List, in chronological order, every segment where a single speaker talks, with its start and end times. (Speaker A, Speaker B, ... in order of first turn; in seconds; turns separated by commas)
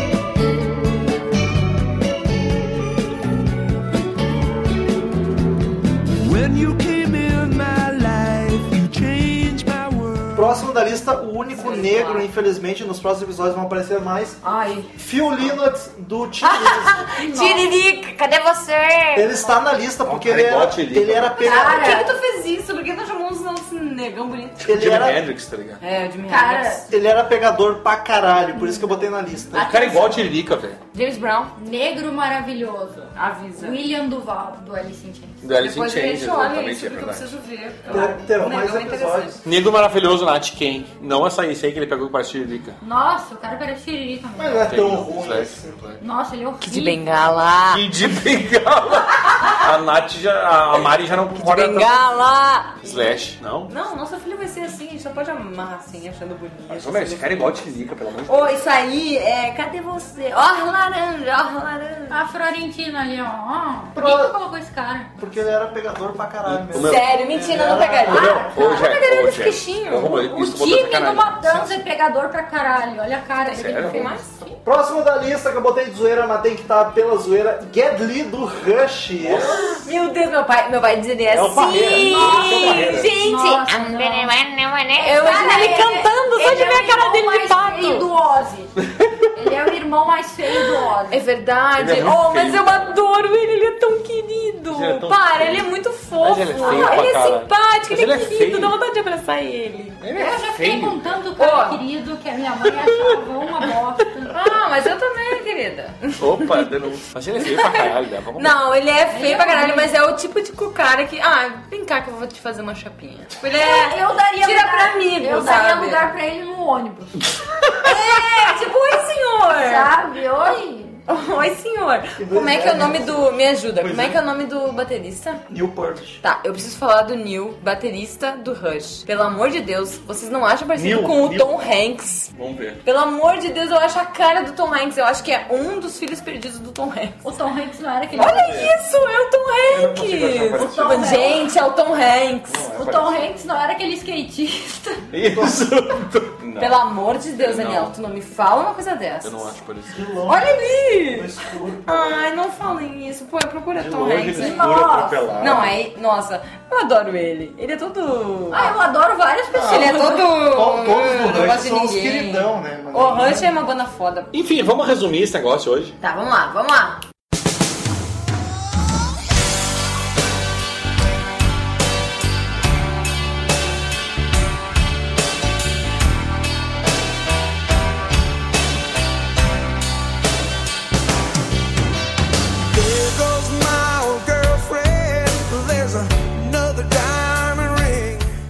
Speaker A: 6.2-10.5, Speaker B: 10.3-14.4, Speaker C: 11.6-12.3, Speaker C: 14.4-14.9, Speaker B: 15.0-17.1, Speaker C: 16.4-19.3, Speaker D: 17.1-17.7, Speaker B: 19.1-22.0, Speaker E: 20.1-21.4, Speaker C: 21.4-24.7, Speaker D: 21.4-22.1, Speaker B: 24.6-25.3, Speaker E: 24.6-25.8, Speaker C: 25.8-26.9, Speaker D: 26.3-26.9, Speaker B: 26.9-29.8, Speaker D: 28.6-29.0, Speaker D: 29.5-30.3, Speaker E: 29.6-30.8, Speaker C: 30.9-31.5, Speaker D: 31.6-35.4, Speaker C: 33.1-33.8, Speaker E: 35.4-37.3, Speaker C: 35.6-39.4, Speaker B: 37.9-39.4, Speaker E: 39.4-42.8, Speaker D: 42.8-45.0, Speaker B: 44.4-45.8, Speaker E: 44.7-46.0, Speaker D: 46.0-47.0, Speaker C: 46.6-47.9, Speaker E: 47.6-52.1, Speaker C: 51.4-53.0, Speaker E: 52.8-53.7, Speaker C: 53.7-57.5, Speaker E: 56.7-58.6, Speaker C: 58.3-62.2, Speaker D: 62.1-65.2, Speaker B: 63.9-64.4, Speaker B: 65.2-68.5, Speaker E: 66.5-67.2, Speaker C: 66.7-70.3, Speaker E: 68.1-71.7, Speaker D: 68.2-69.0, Speaker D: 70.1-74.6, Speaker C: 73.4-74.3, Speaker E: 73.5-74.1, Speaker B: 74.6-79.6, Speaker E: 79.2-79.8, Speaker C: 79.6-88.1, Speaker E: 81.3-83.1, Speaker D: 81.9-84.4, Speaker D: 85.0-88.7, Speaker D: 89.3-91.2, Speaker C: 91.1-100.0, Speaker E: 91.8-93.0, Speaker E: 94.7-95.7, Speaker E: 96.2-98.8, Speaker D: 96.5-97.1, Speaker E: 100.0-101.1, Speaker D: 100.1-104.4, Speaker C: 101.4-101.8, Speaker E: 102.7-103.1, Speaker C: 104.3-106.7, Speaker E: 106.2-108.6, Speaker C: 107.4-116.1, Speaker D: 109.1-109.9, Speaker D: 113.5-117.3, Speaker C: 117.8-119.9, Speaker D: 117.8-118.5, Speaker D: 119.5-121.0, Speaker C: 121.1-125.4, Speaker B: 122.2-123.3, Speaker E: 123.8-124.2, Speaker B: 125.5-126.2, Speaker C: 126.2-132.3, Speaker E: 130.8-131.7, Speaker E: 132.3-132.8, Speaker C: 132.8-137.2, Speaker D: 137.2-138.6, Speaker C: 138.2-142.7, Speaker E: 138.2-138.7, Speaker E: 139.7-141.3, Speaker D: 140.6-141.5, Speaker E: 142.5-143.3, Speaker D: 142.7-145.1, Speaker E: 145.1-146.8, Speaker B: 145.2-145.6, Speaker C: 146.6-149.5, Speaker E: 147.4-147.9, Speaker E: 149.2-150.0, Speaker B: 149.9-152.2, Speaker C: 150.2-151.3, Speaker C: 151.9-158.8, Speaker E: 153.8-155.8, Speaker D: 154.3-155.4, Speaker D: 158.5-160.4, Speaker B: 159.5-163.5, Speaker C: 159.7-164.3, Speaker E: 164.3-165.9, Speaker C: 166.0-167.0, Speaker A: 182.7-188.3